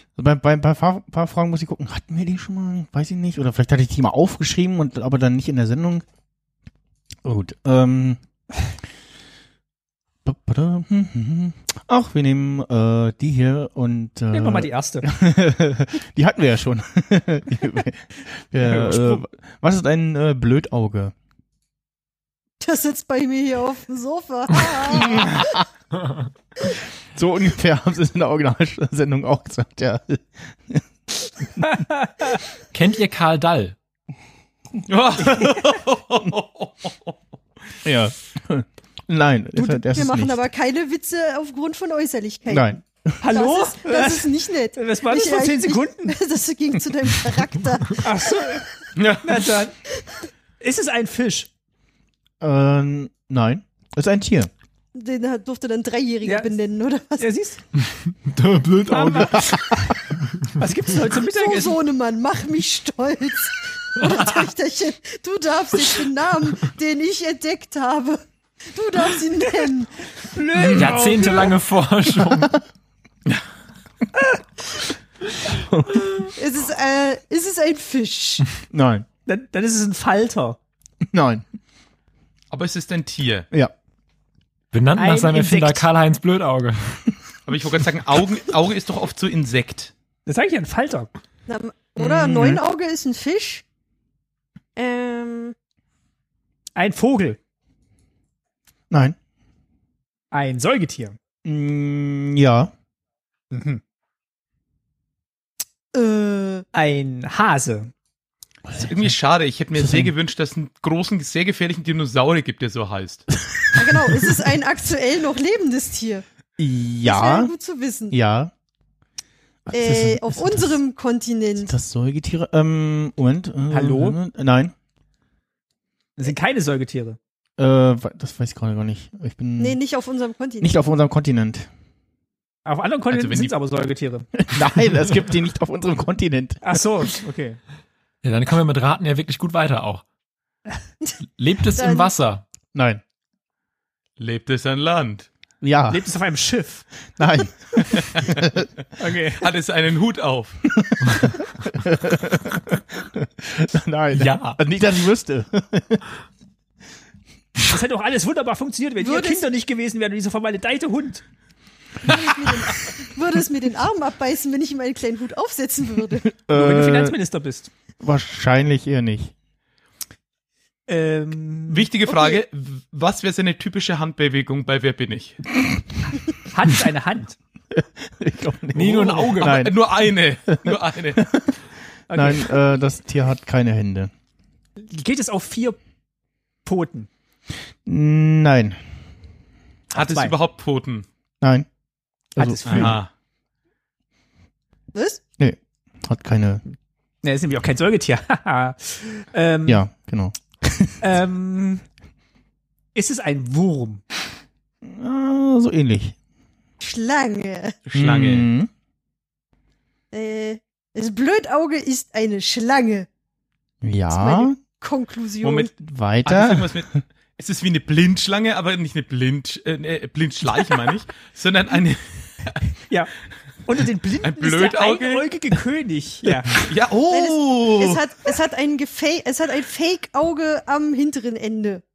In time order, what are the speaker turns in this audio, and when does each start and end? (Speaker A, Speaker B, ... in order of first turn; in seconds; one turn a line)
Speaker A: 0.2-6.0
Speaker A: 7.2-8.2
Speaker A: 10.2-21.1
Speaker B: 14.3-15.1
Speaker B: 18.6-19.2
Speaker C: 22.6-25.6
Speaker A: 24.9-25.6
Speaker A: 27.1-30.8
Speaker B: 31.6-32.4
Speaker D: 32.7-33.8
Speaker E: 34.9-37.1
Speaker A: 37.8-40.4
Speaker C: 39.6-42.8
Speaker A: 42.5-43.2
Speaker B: 43.2-46.2
Speaker C: 43.3-48.5
Speaker B: 48.0-48.7
Speaker E: 49.0-49.5
Speaker B: 49.2-49.8
Speaker B: 50.6-51.5
Speaker A: 52.4-54.5
Speaker C: 55.0-57.3
Speaker B: 56.2-56.5
Speaker B: 57.2-57.6
Speaker D: 57.8-59.8
Speaker B: 58.9-59.5
Speaker B: 60.6-61.8
Speaker C: 61.3-70.1
Speaker B: 70.2-71.5
Speaker D: 70.7-72.5
Speaker A: 75.7-76.1
Speaker C: 76.4-78.5
Speaker A: 78.7-79.1
Speaker B: 79.3-80.6
Speaker A: 81.1-81.4
Speaker E: 82.5-83.5
Speaker D: 84.7-87.0
Speaker B: 85.0-85.9
Speaker E: 87.5-89.9
Speaker B: 90.3-91.1
Speaker C: 91.5-93.6
Speaker A: 92.0-92.6
Speaker C: 94.8-95.5
Speaker B: 96.8-97.4
Speaker A: 98.9-99.2
Speaker B: 100.3-101.2
Speaker A: 101.5-102.7
Speaker B: 103.5-103.8
Speaker C: 105.9-106.7
Speaker B: 106.7-107.9
Speaker A: 108.7-109.1
Speaker E: 108.8-113.3
Speaker A: 109.8-110.1
Speaker C: 113.8-116.2
Speaker A: 116.6-117.5
Speaker C: 117.1-118.2
Speaker A: 118.1-118.5
Speaker A: 119.7-120.8
Speaker C: 119.7-121.7
Speaker A: 121.6-124.7
Speaker B: 123.7-124.2
Speaker B: 126.2-127.2
Speaker A: 127.6-129.8
Speaker C: 129.6-130.8
Speaker A: 130.6-131.7
Speaker B: 132.7-134.3
Speaker E: 133.1-133.5
Speaker A: 134.4-136.6
Speaker B: 136.6-137.6
Speaker D: 138.2-140.0
Speaker D: 141.4-142.4
Speaker C: 141.7-142.1
Speaker A: 142.7-143.0
Speaker E: 144.2-145.3
Speaker A: 145.6-146.1
Speaker B: 145.9-146.9
Speaker A: 147.2-148.7
Speaker B: 149.0-149.5
Speaker E: 149.4-150.6
Speaker A: 150.7-156.1
Speaker B: 154.2-154.6
Speaker B: 157.7-161.2
Speaker C: 159.0-159.4
Speaker C: 162.0-166.4
Speaker A: 166.2-167.2
Speaker B: 166.5-167.7
Speaker A: 168.0-169.3
Speaker B: 170.9-171.9
Speaker E: 171.7-175.4
Speaker C: 172.1-172.4
Speaker B: 176.5-177.4
Speaker A: 177.7-181.5
Speaker D: 178.8-179.6
Speaker E: 179.4-181.3
Speaker B: 182.1-182.5
Speaker A: 182.1-184.1
Speaker B: 184.8-185.8
Speaker B: 186.7-187.1
Speaker A: 187.9-188.8
Speaker B: 189.9-190.3
Speaker E: 189.9-191.1
Speaker A: 191.4-191.7
Speaker A: 192.4-193.0
Speaker B: 192.4-193.0
Speaker E: 192.7-193.1
Speaker C: 194.9-195.2
Speaker A: 195.4-196.6
Speaker B: 197.2-199.8
Speaker A: 199.7-201.2
Speaker B: 201.0-201.8
Speaker B: 202.9-204.0
Speaker A: 204.8-206.2
Speaker C: 206.8-207.8
Speaker E: 207.9-208.5
Speaker A: 207.9-208.7
Speaker C: 210.1-213.1
Speaker A: 213.8-214.6
Speaker C: 214.1-215.7
Speaker E: 215.4-215.7
Speaker A: 215.8-216.9
Speaker E: 216.2-222.7
Speaker B: 223.7-226.6
Speaker E: 224.2-225.3
Speaker E: 226.5-228.0
Speaker C: 227.1-231.8